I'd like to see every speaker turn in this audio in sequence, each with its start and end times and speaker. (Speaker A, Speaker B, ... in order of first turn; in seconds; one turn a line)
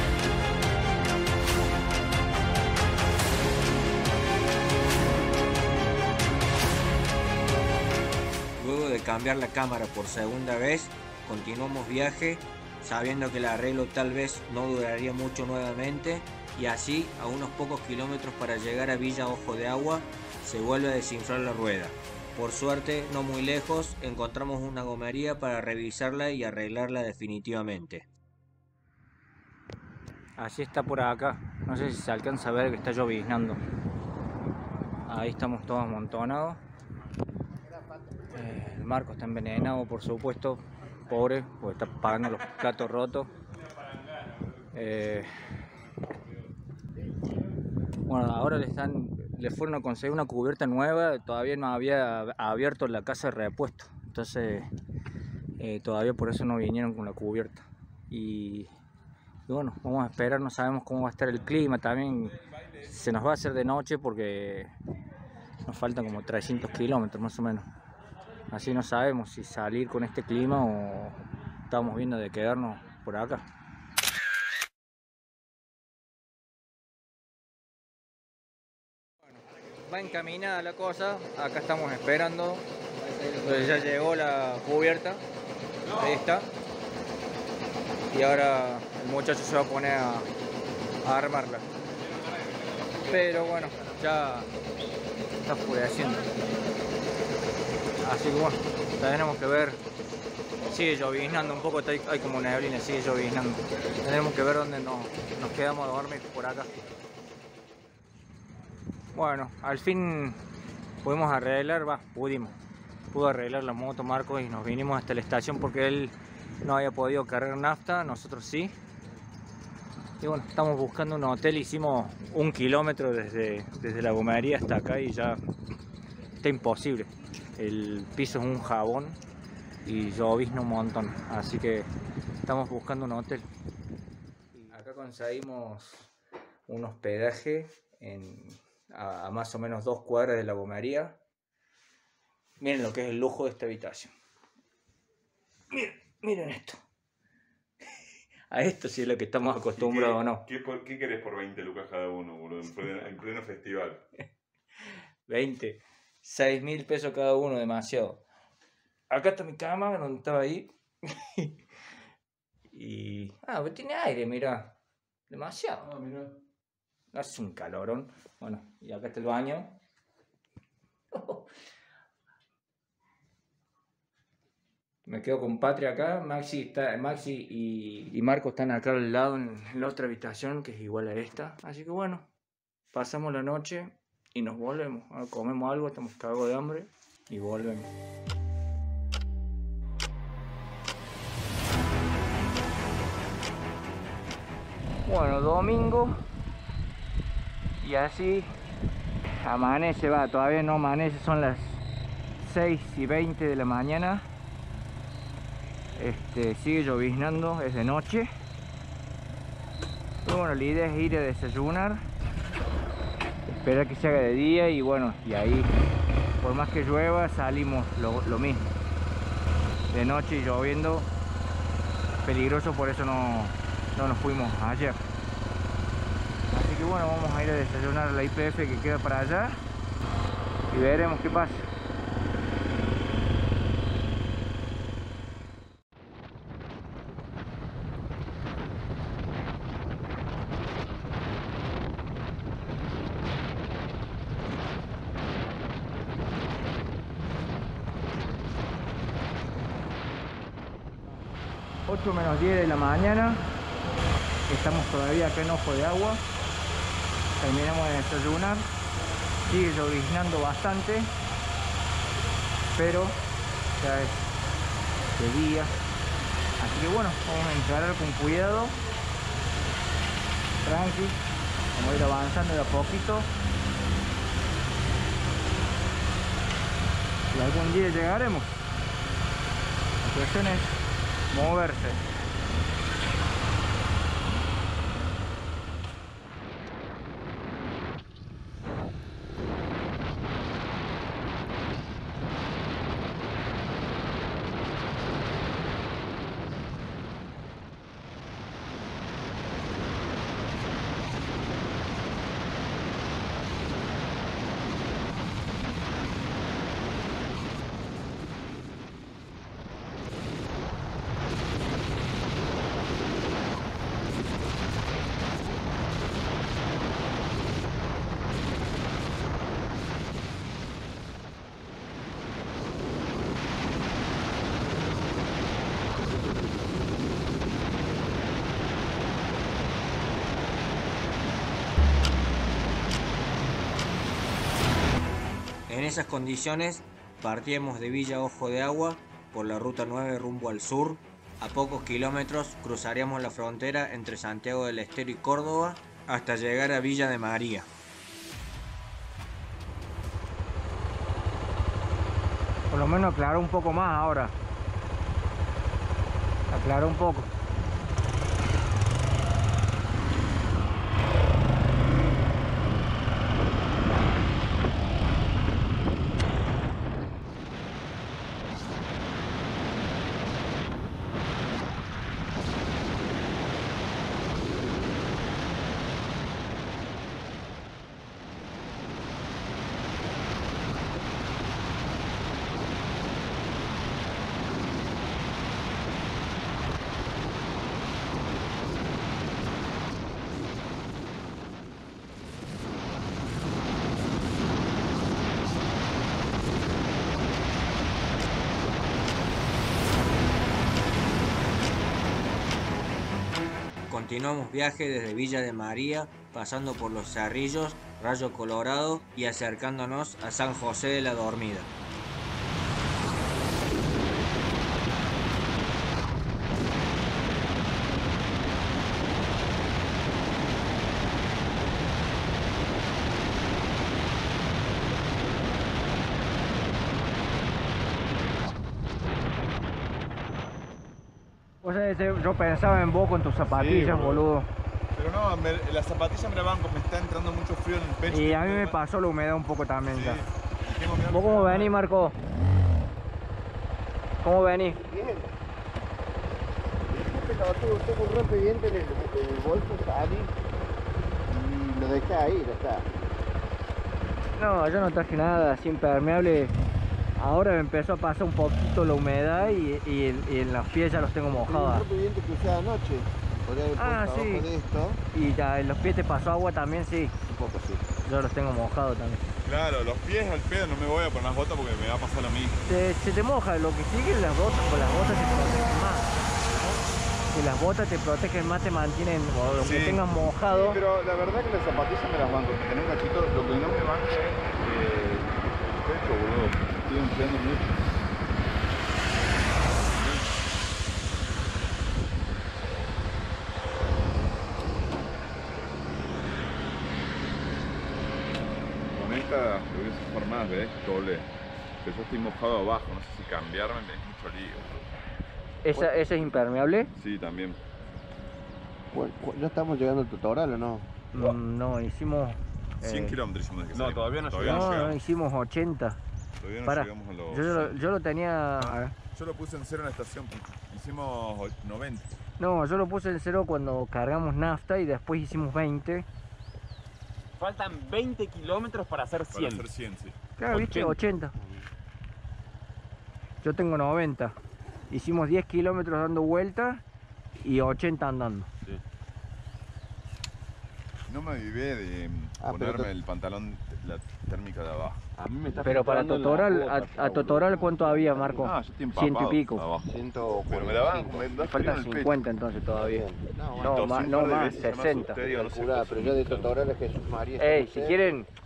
Speaker A: 8.6-28.1
Speaker B: 30.4-33.6
Speaker B: 35.1-36.6
Speaker B: 38.3-43.3
Speaker B: 44.7-45.3
Speaker B: 48.1-54.7
Speaker B: 55.6-58.7
Speaker B: 59.5-64.7
Speaker B: 65.7-67.7
Speaker B: 68.5-73.5
Speaker B: 79.3-85.2
Speaker B: 85.9-86.5
Speaker B: 88.1-90.3
Speaker B: 91.0-91.7
Speaker C: 92.4-93.5
Speaker B: 93.0-94.5
Speaker B: 95.4-96.5
Speaker B: 98.0-99.8
Speaker B: 100.7-106.7
Speaker B: 109.1-110.4
Speaker B: 111.0-112.5
Speaker B: 113.1-118.8
Speaker B: 120.2-125.4
Speaker B: 126.4-129.2
Speaker B: 129.8-131.9
Speaker B: 132.5-133.5
Speaker B: 134.6-136.1
Speaker B: 136.7-141.2
Speaker B: 142.6-144.1
Speaker B: 145.7-146.8
Speaker B: 148.5-150.5
Speaker C: 149.8-154.1
Speaker B: 155.3-158.2
Speaker B: 159.1-160.7
Speaker B: 162.7-164.8
Speaker B: 165.3-166.4
Speaker B: 167.1-169.8
Speaker B: 171.1-171.5
Speaker B: 175.1-182.3
Speaker B: 182.9-187.9
Speaker B: 195.1-196.1
Speaker B: 197.8-198.5
Speaker B: 199.4-201.8
Speaker B: 202.4-204.2
Speaker B: 206.0-208.3
Speaker B: 210.2-212.0
Speaker B: 213.6-215.7
Speaker B: 216.4-218.7
Speaker B: 219.9-221.1
Speaker B: 222.2-225.0
Speaker B: 226.5-229.6
Speaker B: 230.7-231.7
Speaker B: 251.9-253.4
Speaker B: 254.5-256.2
Speaker B: 257.4-258.7
Speaker B: 259.4-261.1
Speaker B: 262.8-263.2
Speaker B: 263.8-264.2
Speaker B: 265.2-265.7
Speaker B: 266.6-268.8
Speaker B: 270.6-271.2
Speaker B: 271.7-273.3
Speaker B: 277.3-278.6
Speaker B: 280.0-280.8
Speaker B: 281.3-282.0
Speaker A: 335.7-347.7
Speaker B: 352.7-354.3
Speaker B: 356.5-357.3
Speaker A: 403.9-411.7
Speaker B: 431.6-434.5
Speaker C: 433.4-434.3
Speaker C: 434.9-438.8
Speaker B: 438.1-440.2
Speaker C: 439.9-441.8
Speaker B: 441.1-442.1
Speaker B: 444.2-444.8
Speaker D: 444.9-445.3
Speaker D: 446.9-450.3
Speaker D: 451.3-452.9
Speaker B: 454.4-456.5
Speaker B: 457.2-461.9
Speaker D: 461.3-465.0
Speaker B: 463.8-464.5
Speaker B: 465.1-469.3
Speaker C: 469.4-472.6
Speaker B: 472.7-476.2
Speaker B: 477.3-480.8
Speaker C: 479.6-487.9
Speaker C: 489.9-490.2
Speaker C: 498.9-501.3
Speaker C: 501.8-504.9
Speaker B: 505.6-506.9
Speaker C: 506.9-507.6
Speaker D: 508.9-510.9
Speaker B: 511.1-513.2
Speaker C: 512.8-515.0
Speaker E: 513.7-515.0
Speaker B: 514.4-516.0
Speaker C: 516.4-517.8
Speaker B: 516.6-518.9
Speaker C: 518.6-522.1
Speaker B: 522.4-526.1
Speaker E: 527.4-529.7
Speaker C: 529.3-530.2
Speaker B: 530.4-531.3
Speaker E: 530.5-531.5
Speaker B: 533.4-534.4
Speaker B: 534.9-536.8
Speaker B: 537.4-538.5
Speaker C: 541.1-545.0
Speaker D: 542.4-542.9
Speaker E: 545.2-548.2
Speaker B: 545.6-549.6
Speaker D: 548.1-548.4
Speaker C: 548.4-549.9
Speaker D: 549.8-551.3
Speaker C: 550.5-552.2
Speaker B: 551.4-553.0
Speaker D: 552.7-554.1
Speaker C: 553.5-556.6
Speaker B: 553.6-555.2
Speaker D: 555.2-558.0
Speaker B: 557.4-558.3